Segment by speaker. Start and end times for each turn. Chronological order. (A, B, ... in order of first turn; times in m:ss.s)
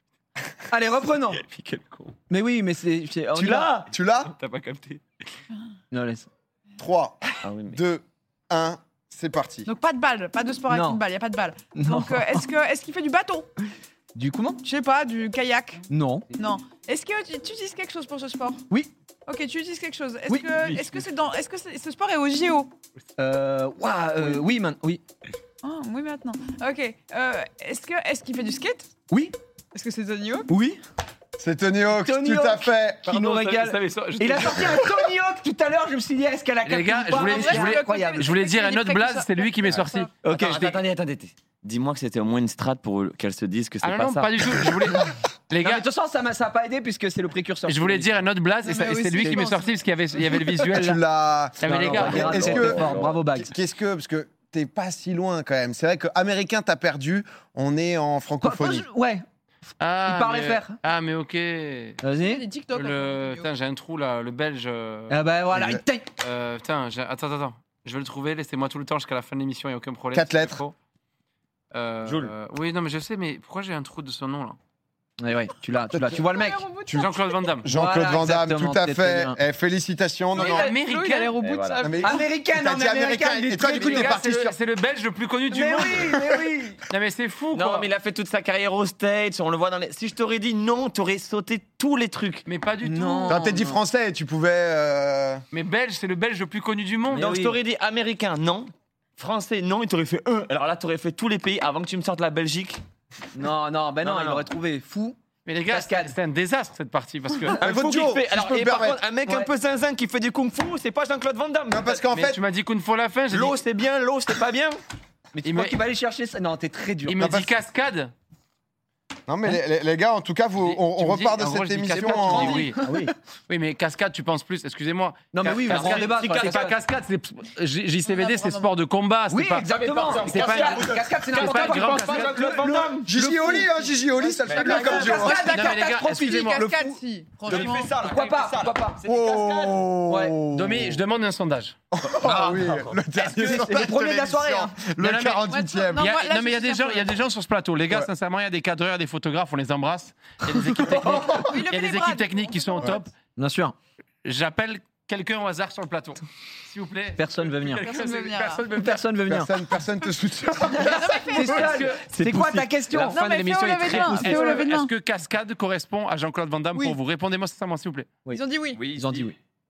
0:00.7-0:01.4 A
0:01.3-0:02.1 B
0:02.3-0:03.8 A
0:03.3-0:05.0 B
0:03.9-0:04.3 C
0:05.9-0:06.3 A
0:06.8-0:09.7 C
0:07.4-0:07.8 B
0:09.6-0:13.5 D
0:10.7-0:11.0 A
0:11.7-0:12.4 A
0:14.1-0:14.6 A
0:14.6-0:18.6 D
0:15.9-0:16.3 A
0:19.2-0:22.7 D
0:20.3-0:21.0 A
0:23.2-0:25.0 A
0:25.6-0:28.9 D
0:29.1-0:29.3 A
0:29.7-0:30.5 D
0:30.5-0:30.8 A
0:31.4-0:33.0 C
0:31.9-0:38.4 A
0:33.0-0:35.0 E
0:36.6-0:40.1 E
0:37.1-0:40.1 D
0:40.2-0:40.8 A
0:40.2-0:44.6 B
0:43.8-0:45.8 E
0:45.6-0:48.2 A
0:47.7-0:51.0 E
0:48.6-0:49.8 D
0:49.2-0:49.4 A
0:50.6-0:58.9 C
0:51.6-0:52.7 E
0:51.6-0:53.5 A
0:51.7-0:53.2 B
0:58.4-0:59.2 A
0:59.8-1:02.0 E
1:00.0-1:00.8 A
1:02.0-1:02.4 A
1:02.2-1:03.5 D
1:02.7-1:05.2 E
1:05.1-1:06.0 A
1:05.5-1:05.8 C
1:06.2-1:10.7 E
1:10.1-1:10.6 C
1:11.7-1:14.6 E
1:12.0-1:12.3 B
1:15.2-1:16.6 A
1:16.0-1:17.3 D
1:17.0-1:17.6 E
1:17.6-1:20.7 C
1:17.6-1:19.4 A
1:20.4-1:21.3 E
1:20.4-1:22.2 D
1:21.4-1:21.9 B
1:21.8-1:24.6 C
1:22.0-1:24.2 A
1:23.6-1:26.3 E
1:25.5-1:26.8 A
1:26.9-1:27.9 E
1:27.5-1:32.4 B
1:32.4-1:33.4 E
1:32.8-1:33.8 A
1:33.3-1:35.4 C
1:35.5-1:37.2 E
1:37.1-1:37.6 A
1:37.1-1:42.8 B
1:43.3-1:45.2 A
1:44.0-1:44.5 B
1:45.4-1:47.6 E
1:45.7-1:46.1 A
1:47.6-1:49.5 C
1:47.6-1:52.0 B
1:51.7-1:52.4 C
1:52.1-1:53.6 E
1:53.3-1:54.8 B
1:55.3-1:57.2 A
1:55.4-1:55.8 E
1:57.1-1:58.1 E
1:57.2-1:57.5 C
1:59.3-2:02.7 C
2:00.6-2:02.8 E
2:01.9-2:03.1 A
2:03.5-2:12.4 E
2:05.3-2:06.7 A
2:05.6-2:06.8 B
2:08.0-2:08.7 D
2:09.3-2:19.0 A
2:09.7-2:13.1 B
2:13.0-2:15.4 C
2:14.4-2:15.4 B
2:14.5-2:17.9 D
2:15.5-2:16.7 E
2:17.4-2:19.8 B
2:19.0-2:21.0 C
2:20.1-2:20.4 A
2:20.5-2:21.8 E
2:21.9-2:26.1 C
2:22.2-2:23.0 B
2:23.1-2:24.8 A
2:25.0-2:33.1 E
2:25.5-2:27.1 D
2:31.0-2:31.3 A
2:31.3-2:33.0 D
2:33.3-2:33.8 A
2:34.2-2:39.0 E
2:37.2-2:37.9 A
2:37.8-2:38.6 D
2:38.7-2:39.6 A
2:39.3-2:41.6 C
2:40.8-2:41.9 D
2:40.8-2:44.6 A
2:41.3-2:42.0 E
2:42.1-2:43.2 B
2:42.9-2:48.1 E
2:43.1-2:44.9 D
2:48.2-2:49.4 A
2:48.3-2:48.8 D
2:48.7-2:49.3 B